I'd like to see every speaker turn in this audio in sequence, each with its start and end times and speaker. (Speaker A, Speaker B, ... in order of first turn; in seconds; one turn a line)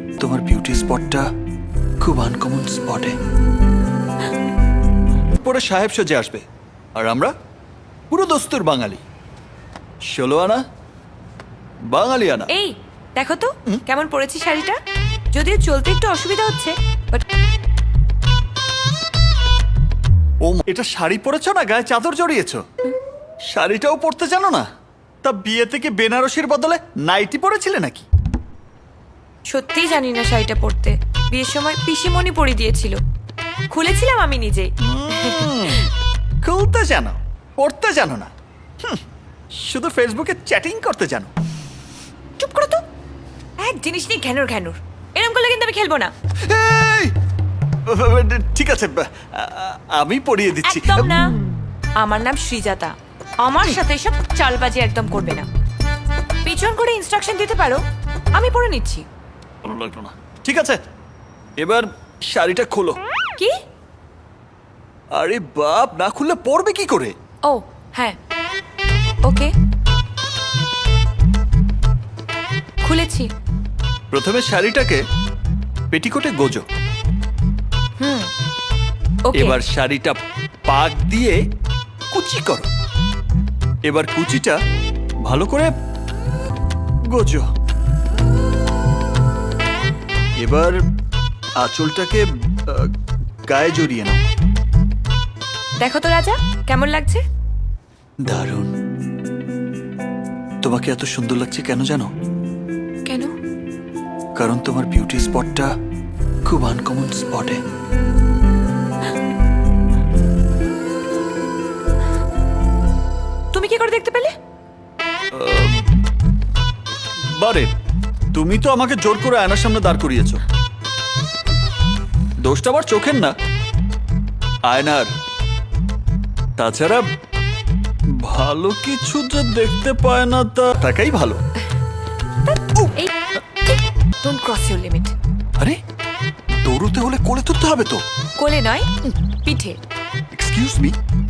Speaker A: 0.2-1.3
Speaker A: 2.0-3.1
Speaker A: 5.4-6.4
Speaker A: 7.0-7.3
Speaker A: 8.1-9.0
Speaker A: 10.1-10.6
Speaker A: 11.9-12.5
Speaker B: 12.5-14.8
Speaker B: 15.3-17.2
Speaker A: 20.4-22.6
Speaker A: 23.5-24.7
Speaker A: 25.2-28.1
Speaker B: 29.5-33.0
Speaker B: 33.7-35.9
Speaker A: 34.8-35.9
Speaker A: 36.4-38.3
Speaker A: 39.5-41.3
Speaker B: 42.4-42.8
Speaker B: 43.6-46.1
Speaker A: 46.4-47.1
Speaker A: 47.9-51.1
Speaker B: 50.6-51.3
Speaker B: 52.0-55.5
Speaker B: 56.5-57.8
Speaker B: 58.3-59.0
Speaker A: 59.6-60.8
Speaker A: 61.6-63.0
Speaker A: 65.2-67.2
Speaker B: 67.5-68.2
Speaker B: 69.2-69.5
Speaker B: 72.8-73.3
Speaker A: 74.1-75.0
Speaker A: 75.9-76.7
Speaker B: 78.0-78.3
Speaker B: 79.3-79.6
Speaker A: 79.4-81.4
Speaker A: 82.1-82.7
Speaker A: 83.9-84.6
Speaker A: 85.2-85.7
Speaker A: 87.1-87.5
Speaker A: 90.4-90.8
Speaker A: 91.6-92.9
Speaker A: 93.5-94.2
Speaker B: 95.8-97.2
Speaker A: 98.3-98.7
Speaker A: 100.6-102.1
Speaker B: 103.1-103.3
Speaker A: 104.4-105.7
Speaker A: 106.5-107.6
Speaker B: 113.5-114.3
Speaker A: 115.3-115.9
Speaker A: 117.4-117.7
Speaker A: 118.3-120.4
Speaker A: 122.4-123.3
Speaker A: 124.7-125.1
Speaker A: 126.6-127.0
Speaker A: 128.2-131.4
Speaker B: 132.5-133.1
Speaker B: 134.2-135.1
Speaker A: 136.6-138.0
Speaker B: 138.4-138.9
Speaker B: 139.4-139.8
Speaker A: 140.3-140.9